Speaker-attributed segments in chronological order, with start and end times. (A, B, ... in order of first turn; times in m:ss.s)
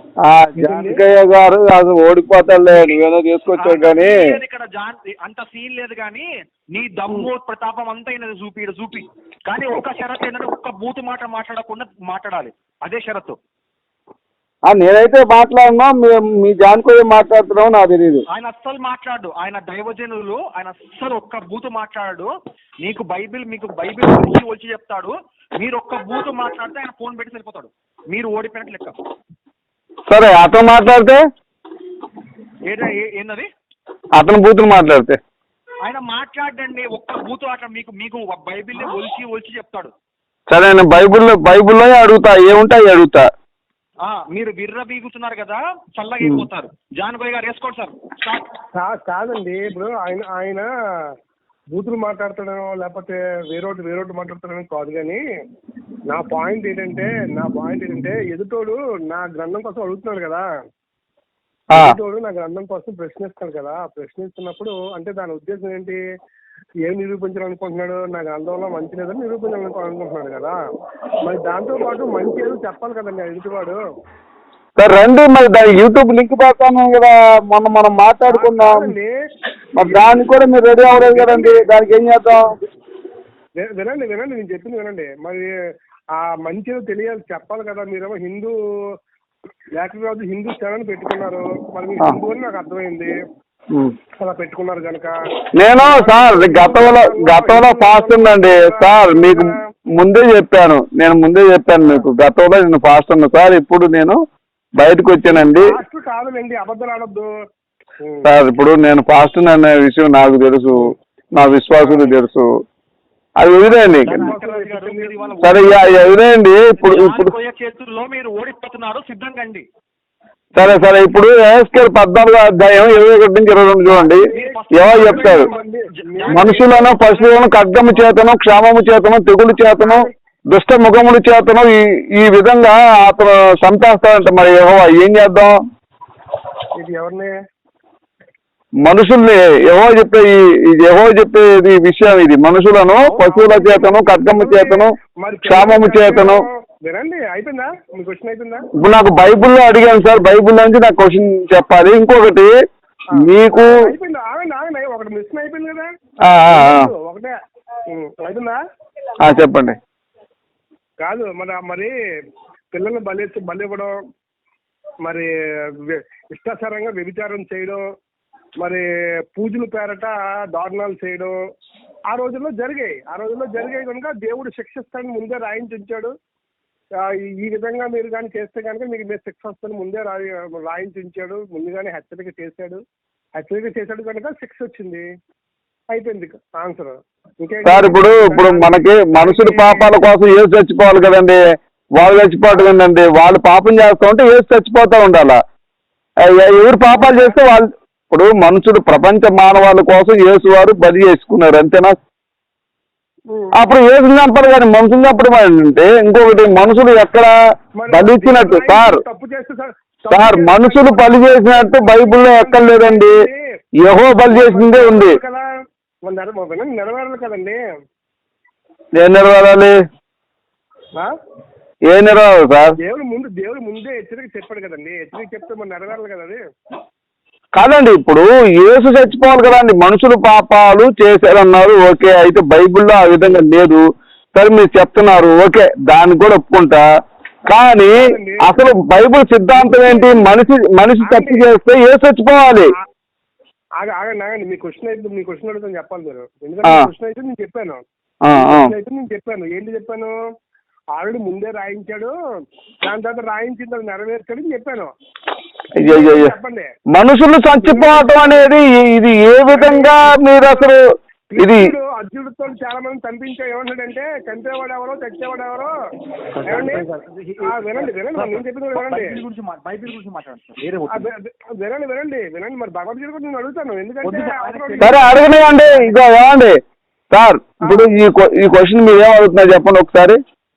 0:00.2-0:04.2 A
0:00.6-0:01.0 B
0:03.6-0:13.4 C
0:14.6-0:18.2 A
0:18.3-0:22.3 C
0:22.8-0:28.9 C
0:30.1-0:31.2 A
0:32.6-0:33.5 C
0:34.1-0:35.2 A
0:35.8-0:39.9 C
0:40.5-0:43.2 A
0:44.0-0:48.5 C
0:48.7-0:50.7 B
0:51.7-0:55.2 B
0:56.1-1:00.4 B
1:01.7-1:06.0 B
1:06.9-1:10.6 B
1:11.2-1:13.8 B
1:14.8-1:18.9 A
1:18.3-1:20.2 B
1:19.8-1:22.5 A
1:20.9-1:21.7 B
1:23.6-1:25.5 B
1:26.2-1:28.5 B
1:29.8-1:33.1 B
1:34.2-1:35.1 B
1:35.6-1:44.2 A
1:35.8-1:39.6 B
1:44.8-1:45.7 A
1:45.5-1:47.3 B
1:48.0-1:48.3 B
1:48.2-1:50.8 A
1:51.3-1:52.5 A
1:51.7-1:52.1 B
1:53.4-1:54.3 A
1:54.0-1:56.2 C
1:54.0-1:55.2 B
1:55.4-1:57.3 A
1:56.8-1:59.6 C
2:00.6-2:05.5 A
2:03.9-2:08.0 C
2:04.3-2:06.8 B
2:06.3-2:15.6 A
2:16.8-2:17.3 B
2:18.8-2:26.4 A
2:23.0-2:28.7 B
2:28.8-2:32.5 A
2:33.1-2:35.9 B
2:33.1-2:33.8 A
2:36.2-2:36.9 A
2:36.5-2:37.3 B
2:37.9-2:38.6 B
2:39.2-2:39.8 A
2:41.0-2:41.9 B
2:42.7-2:44.0 B
2:45.8-2:47.8 B
2:48.6-2:51.3 B
2:52.1-2:56.1 B
2:57.0-3:02.8 B
3:03.4-3:05.0 B
3:05.9-3:09.9 B
3:07.6-3:11.4 A
3:12.0-3:15.4 A
3:16.2-3:21.9 A
3:23.6-3:27.3 A
3:27.8-3:33.4 B
3:27.9-3:29.0 A
3:30.1-3:33.2 A
3:33.8-3:35.2 A
3:34.3-3:35.4 B
3:36.0-3:37.6 B
3:39.0-3:39.8 A
3:41.9-3:42.7 A
3:42.8-3:46.4 B
3:47.5-3:53.8 A
3:54.3-3:56.8 A
3:57.5-4:02.7 A
3:58.0-3:58.5 B
3:59.6-4:00.4 B
4:01.0-4:01.4 B
4:03.8-4:10.1 B
4:08.2-4:08.7 A
4:10.9-4:12.1 B
4:12.8-4:14.9 B
4:15.8-4:16.3 A
4:15.8-4:16.7 B
4:16.9-4:20.8 A
4:17.6-4:18.5 B
4:19.5-4:20.6 B
4:21.3-4:25.7 B
4:21.4-4:21.7 A
4:26.3-4:31.1 C
4:26.5-4:26.8 B
4:27.4-4:29.1 B
4:30.9-4:35.0 B
4:34.0-4:36.0 C
4:34.8-4:36.6 A
4:37.1-4:40.2 A